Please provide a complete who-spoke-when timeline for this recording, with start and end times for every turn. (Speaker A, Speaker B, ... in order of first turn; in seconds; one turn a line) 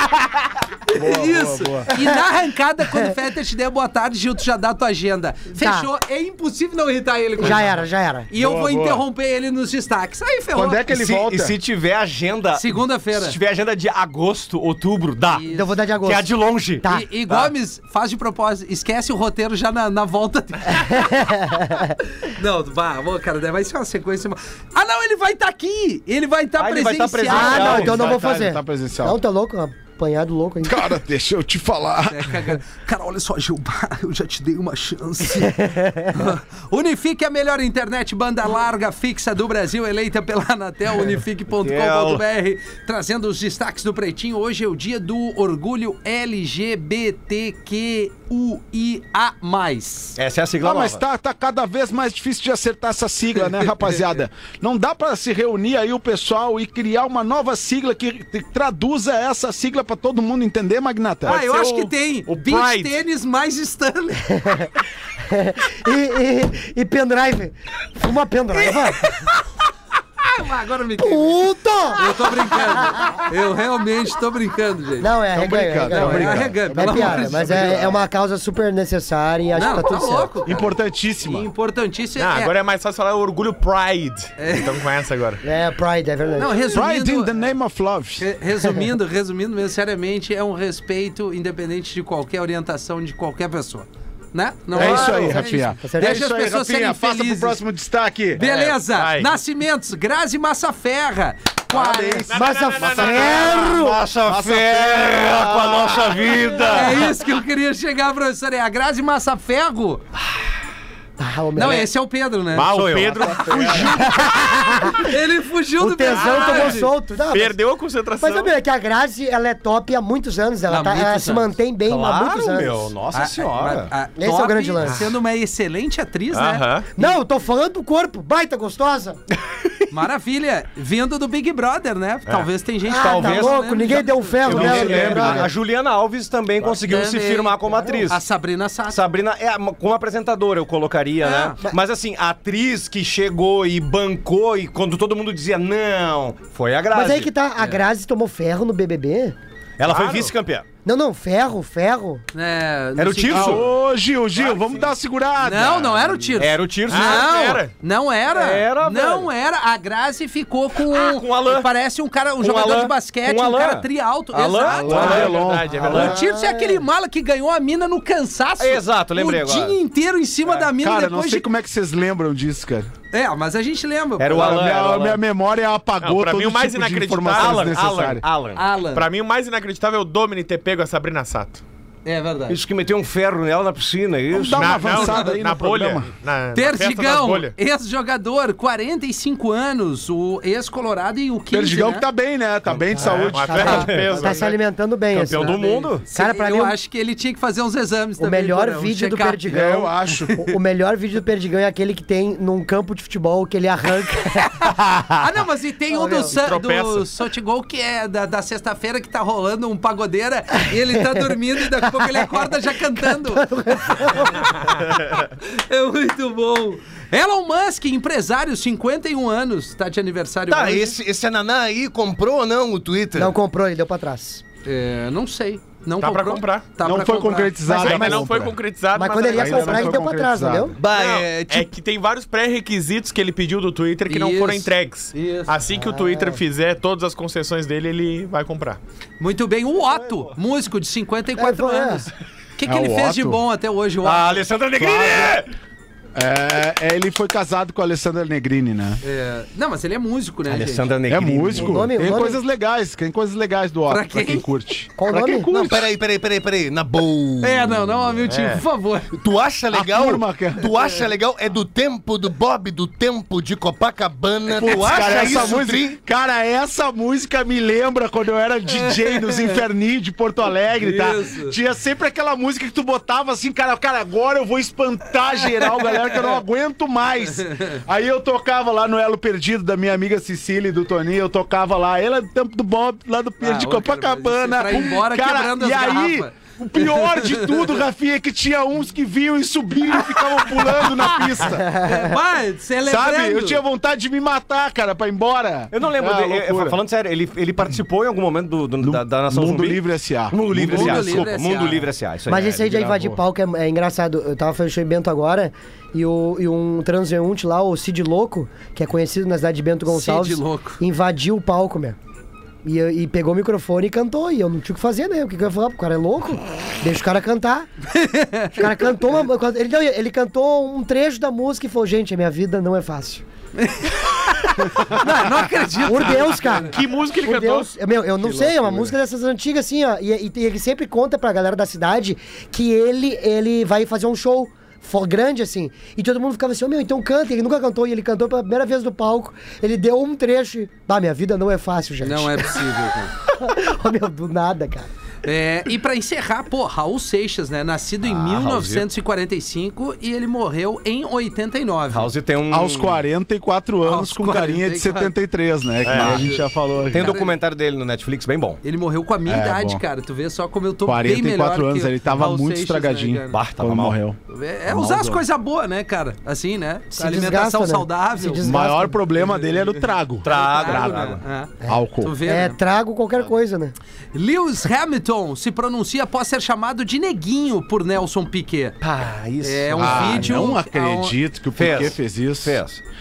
Speaker A: 0.9-7.8
Speaker B: 0.9-1.9
Speaker C: 5.6-5.9
Speaker C: 7.4-8.3
Speaker A: 8.3-10.8
Speaker B: 8.3-9.0
Speaker B: 10.5-11.5
Speaker D: 10.9-15.4
Speaker A: 12.5-13.4
Speaker A: 15.3-15.8
Speaker C: 15.5-17.1
Speaker D: 16.0-17.5
Speaker A: 16.9-21.1
Speaker C: 20.9-21.9
Speaker A: 22.2-27.9
Speaker D: 26.6-28.2
Speaker C: 27.3-30.9
Speaker B: 27.5-29.2
Speaker B: 30.6-32.6
Speaker A: 32.1-50.2
Speaker C: 35.4-36.1
Speaker D: 41.6-42.2
Speaker D: 50.2-51.0
Speaker B: 50.6-61.4
Speaker A: 53.6-53.9
Speaker A: 61.2-64.2
Speaker E: 61.3-63.0
Speaker C: 64.3-64.7
Speaker C: 65.3-69.2
Speaker A: 68.6-69.3
Speaker A: 70.2-75.1
Speaker C: 71.0-73.2
Speaker C: 75.0-80.3
Speaker B: 75.3-78.0
Speaker A: 75.9-77.9
Speaker A: 79.5-80.7
Speaker B: 80.4-81.5
Speaker A: 81.2-82.5
Speaker E: 82.2-85.4
Speaker A: 84.4-84.8
Speaker C: 85.4-86.7
Speaker A: 86.3-87.3
Speaker B: 86.7-88.3
Speaker A: 88.2-97.6
Speaker C: 94.7-96.2
Speaker B: 94.7-98.4
Speaker A: 98.4-102.3
Speaker E: 98.4-99.4
Speaker B: 101.7-106.9
Speaker E: 102.3-103.7
Speaker C: 102.3-104.0
Speaker D: 103.7-107.0
Speaker A: 106.7-110.0
Speaker C: 111.2-111.9
Speaker A: 111.5-112.7
Speaker E: 112.5-114.2
Speaker D: 112.7-113.9
Speaker B: 113.4-113.9
Speaker A: 113.7-114.1
Speaker C: 113.9-115.1
Speaker A: 115.0-116.9
Speaker C: 115.8-117.6
Speaker E: 116.0-118.5
Speaker C: 118.2-122.9
Speaker A: 120.7-121.5
Speaker D: 121.8-123.9
Speaker A: 123.1-127.2
Speaker C: 124.2-125.0
Speaker E: 124.8-125.1
Speaker E: 126.3-126.9
Speaker C: 127.0-129.2
Speaker A: 129.9-135.1
Speaker C: 132.8-135.5
Speaker D: 132.9-138.2
Speaker B: 134.4-135.5
Speaker A: 136.7-139.0
Speaker C: 137.7-138.1
Speaker D: 138.9-147.3
Speaker A: 141.2-141.6
Speaker C: 146.9-149.3
Speaker D: 149.8-150.6
Speaker E: 149.8-150.3
Speaker C: 150.8-152.2
Speaker A: 152.3-153.6
Speaker D: 153.0-153.7
Speaker B: 153.3-156.3
Speaker D: 154.4-154.8
Speaker A: 155.4-171.5
Speaker D: 156.4-157.4
Speaker E: 156.9-157.7
Speaker D: 158.3-159.3
Speaker D: 160.8-161.7
Speaker D: 162.4-166.2
Speaker B: 164.7-166.1
Speaker E: 164.8-166.1
Speaker C: 165.9-166.8
Speaker D: 168.6-169.8
Speaker B: 170.5-172.9
Speaker A: 173.1-174.6
Speaker D: 174.2-175.2
Speaker B: 174.3-178.2
Speaker E: 176.0-177.8
Speaker D: 177.3-178.6
Speaker A: 178.5-179.1
Speaker E: 178.9-181.6
Speaker A: 182.0-182.6
Speaker D: 182.5-185.0
Speaker B: 184.3-186.1
Speaker E: 184.5-187.5
Speaker A: 184.9-185.3
Speaker A: 186.5-192.1
Speaker B: 191.5-193.7
Speaker C: 192.9-196.8
Speaker D: 193.0-194.4
Speaker E: 193.0-194.6
Speaker D: 195.1-196.0
Speaker A: 195.3-199.4
Speaker C: 198.2-205.1
Speaker B: 199.5-200.3
Speaker A: 200.1-200.5
Speaker A: 205.2-213.4
Speaker C: 205.9-206.3
Speaker E: 206.3-207.1
Speaker C: 212.0-212.4
Speaker C: 212.9-214.7
Speaker A: 215.4-221.0
Speaker F: 220.5-223.3
Speaker C: 223.1-224.4
Speaker A: 224.6-227.7
Speaker E: 226.0-226.7
Speaker B: 226.8-228.6
Speaker C: 227.7-228.4
Speaker E: 227.8-230.0
Speaker C: 228.9-230.8
Speaker B: 229.3-230.8
Speaker D: 230.8-231.4
Speaker E: 230.8-238.8
Speaker F: 230.9-231.7
Speaker A: 234.1-235.5
Speaker C: 235.6-236.4
Speaker A: 239.2-244.4
Speaker C: 241.4-242.1
Speaker B: 242.6-243.4
Speaker D: 244.0-245.5
Speaker B: 244.8-245.4
Speaker B: 246.1-249.0
Speaker A: 249.0-250.9
Speaker D: 250.5-251.9
Speaker B: 251.1-255.8
Speaker C: 251.6-252.4
Speaker A: 253.9-254.5
Speaker C: 255.0-255.8
Speaker F: 255.7-257.7
Speaker A: 257.4-259.1
Speaker E: 258.3-258.6
Speaker F: 259.1-266.0
Speaker B: 259.7-260.7
Speaker B: 264.5-291.6
Speaker D: 264.8-265.5
Speaker A: 268.7-269.6
Speaker A: 270.8-271.6
Speaker A: 275.4-276.4
Speaker A: 277.3-277.8
Speaker A: 283.4-287.8
Speaker A: 290.8-293.6
Speaker C: 291.6-292.1
Speaker B: 292.8-296.8
Speaker D: 295.7-302.8
Speaker B: 298.8-301.3
Speaker A: 300.7-301.9
Speaker C: 302.3-312.0
Speaker B: 302.6-303.2
Speaker A: 309.9-310.8
Speaker C: 312.6-317.7
Speaker A: 317.9-318.8
Speaker C: 318.5-323.2
Speaker A: 323.6-326.6
Speaker C: 325.8-342.7
Speaker E: 326.1-327.7
Speaker B: 328.3-328.9
Speaker A: 342.0-343.1
Speaker C: 343.3-344.9
Speaker A: 345.2-352.1
Speaker D: 348.0-348.9
Speaker D: 351.9-353.0
Speaker B: 352.5-357.1
Speaker A: 353.8-355.1
Speaker E: 355.8-356.2
Speaker A: 355.9-357.3
Speaker D: 355.9-356.2
Speaker D: 356.9-358.6
Speaker A: 358.6-363.4
Speaker B: 359.2-359.8
Speaker B: 360.8-365.2
Speaker D: 363.3-364.0
Speaker A: 364.3-368.4
Speaker C: 366.9-369.0
Speaker B: 368.4-372.1
Speaker A: 369.2-372.6
Speaker D: 370.2-371.2
Speaker C: 371.6-373.7
Speaker A: 374.1-378.8
Speaker D: 378.8-380.5
Speaker A: 379.4-381.1
Speaker B: 379.8-382.6
Speaker D: 381.6-382.8